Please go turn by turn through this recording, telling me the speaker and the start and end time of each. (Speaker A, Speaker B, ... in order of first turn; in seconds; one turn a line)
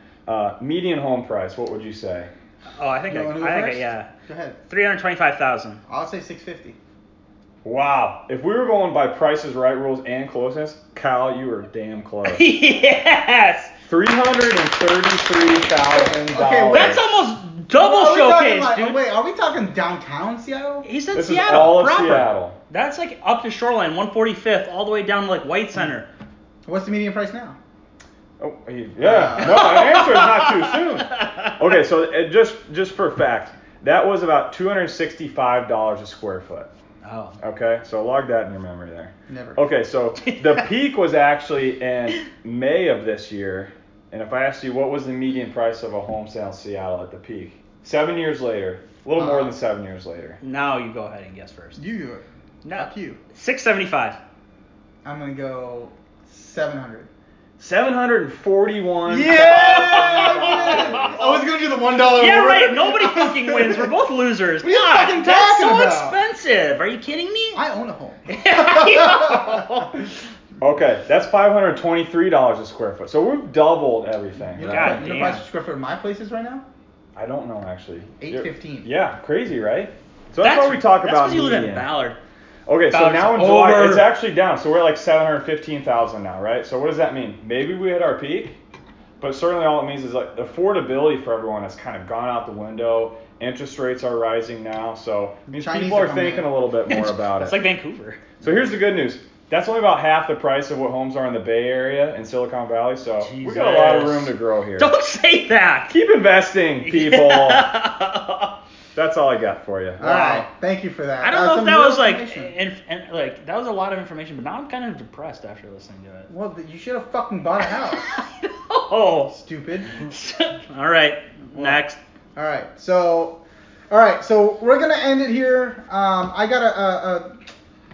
Speaker A: 0.3-2.3
Speaker B: 2.8-4.1
Speaker C: 3.1-4.6
Speaker B: 4.7-5.8
Speaker C: 5.9-6.8
Speaker A: 7.6-12.5
Speaker B: 12.2-13.7
Speaker A: 13.9-17.0
Speaker C: 16.3-17.0
Speaker B: 16.7-19.0
Speaker C: 17.8-20.9
Speaker B: 20.9-26.1
Speaker A: 21.1-22.6
Speaker C: 26.7-27.6
Speaker A: 28.4-36.7
Speaker C: 29.0-29.8
Speaker B: 29.4-31.6
Speaker B: 37.0-37.4
Speaker A: 37.4-50.4
Speaker C: 39.3-39.6
Speaker B: 40.2-40.6
Speaker C: 49.2-49.5
Speaker B: 50.4-51.8
Speaker C: 51.8-53.2
Speaker B: 52.6-54.2
Speaker C: 55.0-57.1
Speaker A: 57.6-61.4
Speaker C: 59.1-64.0
Speaker B: 59.3-61.1
Speaker B: 62.1-67.6
Speaker C: 64.6-66.2
Speaker C: 67.5-69.7
Speaker B: 68.3-70.0
Speaker A: 70.6-75.1
Speaker C: 74.5-76.6
Speaker B: 74.7-75.4
Speaker A: 77.2-81.9
Speaker C: 78.2-78.9
Speaker B: 80.4-82.2
Speaker A: 82.7-88.6
Speaker B: 82.9-83.7
Speaker C: 83.3-84.1
Speaker A: 89.2-97.6
Speaker C: 95.5-96.5
Speaker B: 96.9-98.2
Speaker A: 98.4-104.9
Speaker B: 103.2-106.0
Speaker A: 105.9-107.7
Speaker B: 106.8-108.5
Speaker A: 109.0-110.4
Speaker C: 110.0-112.5
Speaker B: 110.0-110.4
Speaker B: 111.2-116.3
Speaker C: 116.3-118.0
Speaker B: 118.1-119.3
Speaker C: 119.3-120.0
Speaker B: 120.0-122.0
Speaker C: 121.5-121.8
Speaker C: 122.4-123.4
Speaker C: 123.9-127.3